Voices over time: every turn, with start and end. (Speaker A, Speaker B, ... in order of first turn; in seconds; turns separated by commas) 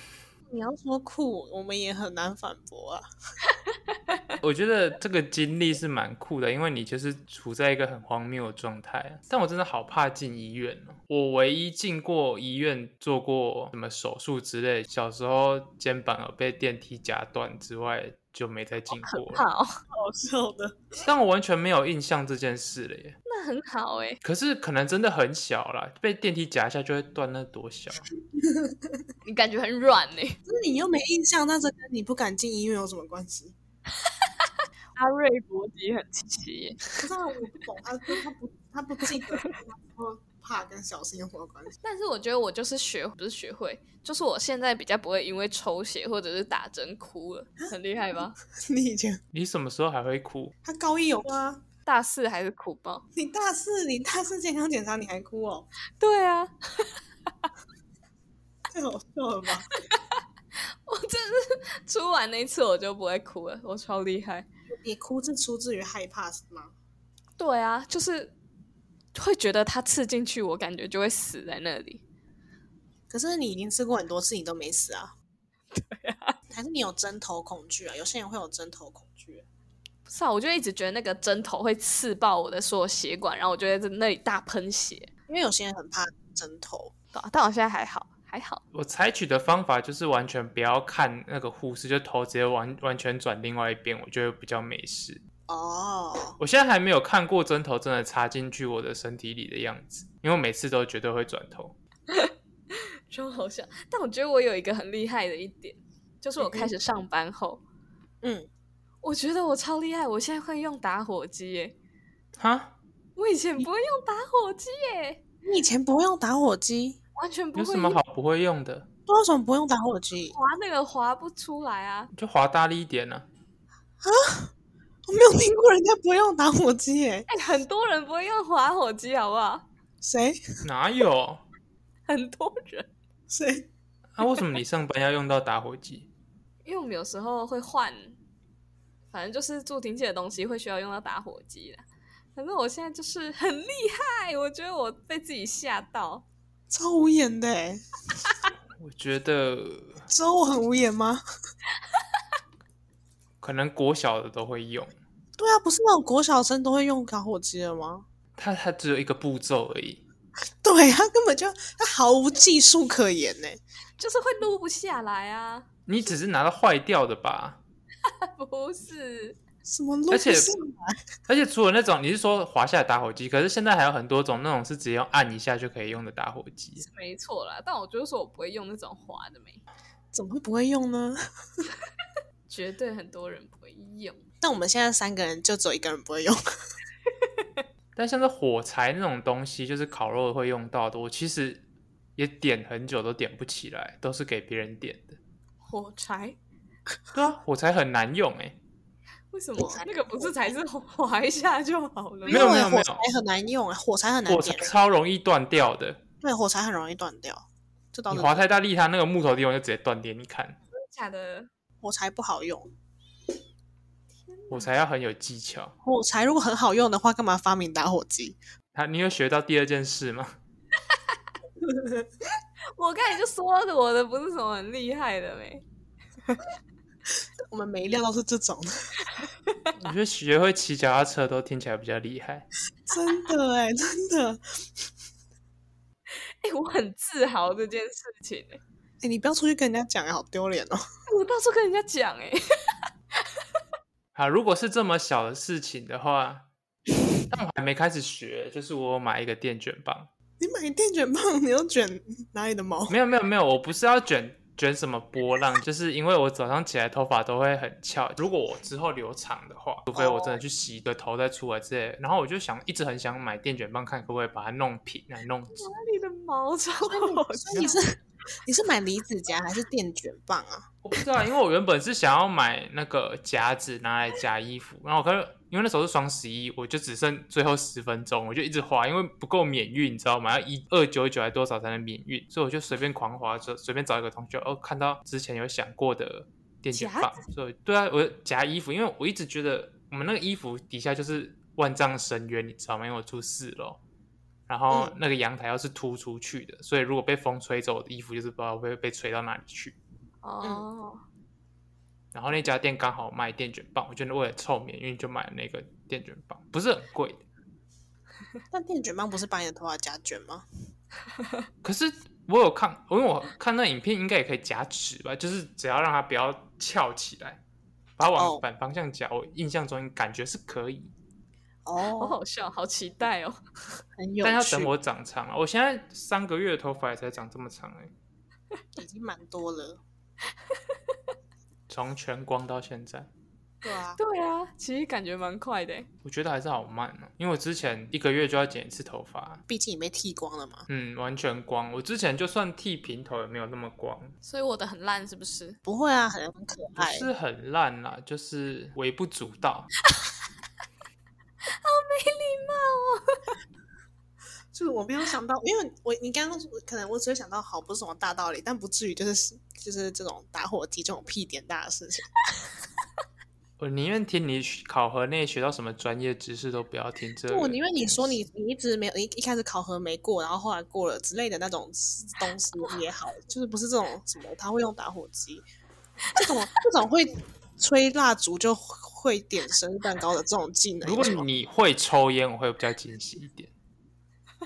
Speaker A: 0.5-3.0, Speaker B: 3.4-4.4, Speaker C: 4.4-19.4, Speaker B: 18.9-19.8, Speaker A: 19.9-21.0, Speaker C: 21.1-23.2, Speaker B: 23.3-24.2, Speaker C: 24.2-28.1, Speaker A: 28.4-29.0, Speaker B: 29.2-30.4, Speaker A: 30.5-33.5, Speaker B: 34.3-36.9, Speaker A: 36.9-41.7, Speaker B: 41.8-48.4, Speaker A: 48.5-49.2, Speaker C: 49.3-50.5, Speaker A: 50.6-51.6, Speaker B: 51.9-53.0, Speaker A: 53.2-55.7, Speaker B: 56.0-57.0, Speaker A: 58.7-59.7, Speaker B: 59.7-60.2, Speaker B: 60.7-64.5, Speaker A: 64.7-66.7, Speaker B: 67.4-68.3, Speaker B: 69.1-72.0, Speaker A: 73.1-75.1, Speaker B: 75.7-76.4, Speaker A: 76.5-79.5, Speaker B: 80.1-85.1, Speaker A: 85.3-86.9, Speaker B: 87.1-88.6, Speaker C: 88.7-95.2, Speaker A: 95.5-96.4, Speaker C: 96.4-101.8, Speaker B: 102.1-107.6, Speaker A: 106.4-106.7, Speaker A: 108.2-108.5, Speaker B: 109.0-111.8, Speaker C: 112.4-112.7, Speaker B: 113.2-115.2, Speaker A: 115.5-117.0, Speaker B: 117.2-118.0, Speaker C: 117.5-118.9, Speaker A: 119.1-120.4, Speaker B: 120.3-122.1, Speaker C: 122.1-123.3, Speaker A: 124.0-124.5, Speaker A: 125.1-127.3, Speaker B: 127.3-129.7, Speaker A: 130.0-130.4, Speaker C: 130.6-131.4, Speaker B: 132.1-132.9, Speaker A: 133.3-133.7, Speaker C: 134.2-136.1, Speaker B: 136.7-138.2, Speaker B: 139.1-141.8, Speaker B: 142.4-146.2, Speaker A: 146.7-147.8, Speaker C: 148.8-150.1, Speaker A: 150.1-151.2, Speaker C: 153.4-154.9, Speaker A: 155.4-158.1, Speaker C: 158.4-160.0, Speaker A: 160.6-163.6, Speaker B: 164.0-165.7, Speaker C: 165.9-167.6, Speaker B: 168.0-169.4, Speaker A: 169.7-171.0, Speaker C: 170.1-170.5, Speaker C: 171.3-176.8, Speaker B: 176.8-179.6, Speaker A: 180.1-181.2, Speaker B: 182.5-184.2, Speaker A: 184.4-186.4, Speaker C: 188.0-191.6, Speaker C: 192.2-195.2, Speaker B: 195.6-196.4, Speaker C: 197.1-198.6, Speaker B: 199.3-202.6, Speaker A: 199.6-200.5, Speaker A: 202.2-204.7, Speaker C: 202.3-203.0, Speaker C: 204.3-206.0, Speaker A: 206.2-208.5, Speaker C: 208.1-210.6, Speaker B: 210.7-211.5, Speaker A: 211.8-212.7, Speaker B: 214.3-214.7, Speaker C: 214.5-215.8, Speaker A: 215.8-218.4, Speaker C: 218.8-220.3, Speaker A: 221.6-222.1, Speaker B: 222.8-225.6, Speaker A: 227.5-229.1, Speaker C: 229.8-232.5, Speaker A: 232.9-234.4, Speaker B: 236.2-238.6, Speaker A: 239.0-240.8, Speaker B: 241.1-242.7, Speaker C: 244.1-246.5, Speaker C: 247.3-250.1, Speaker A: 250.4-253.0, Speaker C: 252.9-265.7, Speaker A: 259.9-260.4, Speaker B: 265.5-267.8, Speaker A: 266.8-270.7, Speaker C: 270.8-293.8, Speaker B: 286.7-287.2, Speaker C: 294.5-299.8, Speaker A: 294.7-295.0, Speaker B: 300.2-301.0, Speaker C: 302.1-307.2, Speaker A: 308.5-310.4, Speaker C: 311.6-317.4, Speaker C: 318.0-320.9, Speaker A: 318.2-318.4, Speaker A: 321.7-322.2, Speaker B: 322.0-323.4, Speaker A: 324.0-324.7, Speaker C: 324.2-327.9, Speaker A: 328.8-329.8, Speaker C: 331.7-333.1, Speaker A: 333.6-334.0, Speaker B: 334.0-335.9, Speaker C: 336.0-339.4, Speaker A: 339.5-340.7, Speaker C: 340.7-344.1, Speaker B: 344.2-345.6, Speaker A: 345.6-347.1, Speaker C: 346.8-349.7, Speaker B: 349.9-350.1, Speaker B: 351.4-353.4, Speaker A: 354.5-362.1, Speaker C: 363.6-368.2, Speaker A: 367.3-375.5, Speaker A: 376.1-381.3, Speaker C: 380.8-383.5